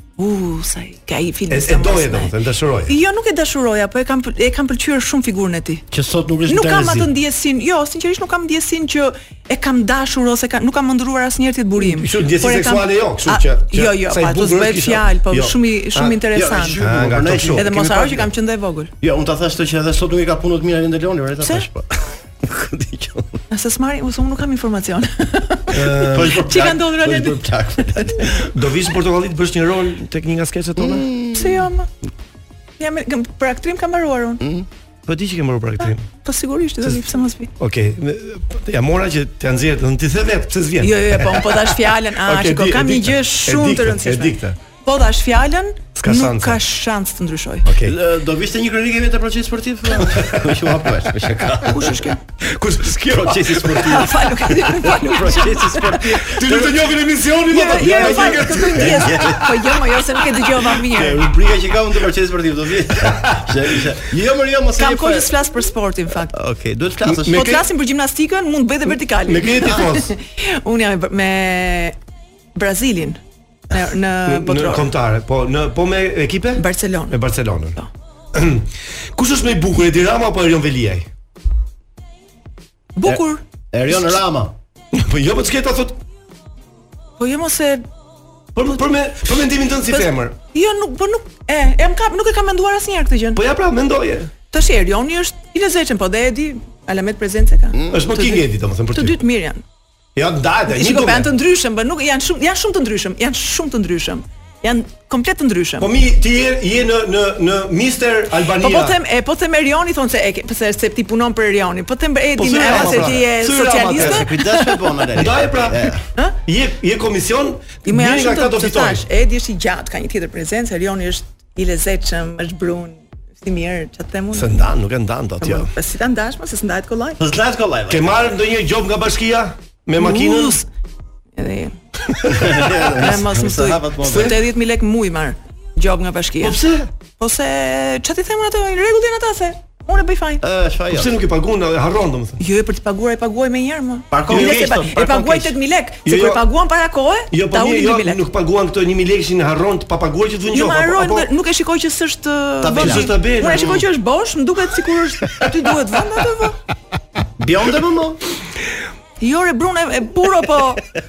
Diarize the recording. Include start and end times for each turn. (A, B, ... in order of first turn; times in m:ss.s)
0:00.2-0:02.4 A
0:01.5-0:03.0 B
0:02.9-0:05.8 A
0:05.9-0:07.1 C
0:06.5-0:16.9 A
0:11.8-0:16.2 B
0:16.3-0:18.3 C
0:16.7-0:17.7 B
0:17.6-0:18.9 A
0:19.0-0:23.4 C
0:21.4-0:21.7 A
0:23.5-0:28.1 A
0:25.7-0:26.4 B
0:25.9-0:28.5 C
0:28.4-0:31.1 B
0:30.8-0:31.7 C
0:31.4-0:31.9 A
0:32.8-0:34.4 A
0:34.4-0:34.7 C
0:35.1-0:36.1 B
0:35.8-0:37.5 A
0:37.6-0:44.6 B
0:40.8-0:47.7 A
0:46.0-0:46.6 B
0:47.6-0:48.0 B
0:47.8-0:52.0 C
0:50.0-0:50.7 B
0:51.7-0:52.2 A
0:52.4-0:54.1 B
0:53.0-0:56.9 C
0:53.9-0:56.1 A
0:56.1-0:59.7 B
0:57.5-1:01.3 A
0:57.7-0:59.8 C
1:00.9-1:05.4 C
1:03.0-1:03.8 B
1:04.8-1:06.3 A
1:06.3-1:07.6 C
1:07.0-1:07.7 B
1:07.3-1:12.0 A
1:09.2-1:10.1 B
1:12.6-1:13.2 A
1:13.7-1:14.9 A
1:14.2-1:17.8 B
1:16.6-1:17.2 A
1:18.3-1:21.1 B
1:23.0-1:23.4 A
1:23.7-1:24.6 C
1:24.9-1:26.0 B
1:27.2-1:27.9 A
1:28.6-1:30.4 B
1:29.9-1:33.4 A
1:33.3-1:34.3 B
1:34.5-1:39.6 A
1:37.9-1:39.2 B
1:40.2-1:41.3 B
1:40.7-1:45.9 A
1:45.8-1:49.0 B
1:48.6-1:54.8 A
1:52.4-1:54.3 B
1:52.6-1:53.2 C
1:53.9-1:56.0 C
1:55.2-1:59.1 B
1:57.8-2:04.7 A
2:04.3-2:05.7 B
2:05.4-2:07.2 A
2:07.2-2:08.3 C
2:07.9-2:10.6 B
2:10.0-2:10.6 A
2:11.4-2:11.8 A
2:12.2-2:12.7 B
2:12.3-2:14.4 C
2:12.9-2:16.6 A
2:14.0-2:14.4 B
2:16.4-2:16.9 B
2:17.1-2:20.4 A
2:20.4-2:21.2 C
2:20.9-2:22.4 B
2:22.4-2:28.2 A
2:24.1-2:25.6 C
2:24.3-2:24.6 B
2:26.0-2:26.5 B
2:27.3-2:31.3 B
2:30.5-2:36.6 A
2:32.6-2:33.8 C
2:32.7-2:33.9 B
2:37.4-2:38.2 C
2:39.2-2:40.8 A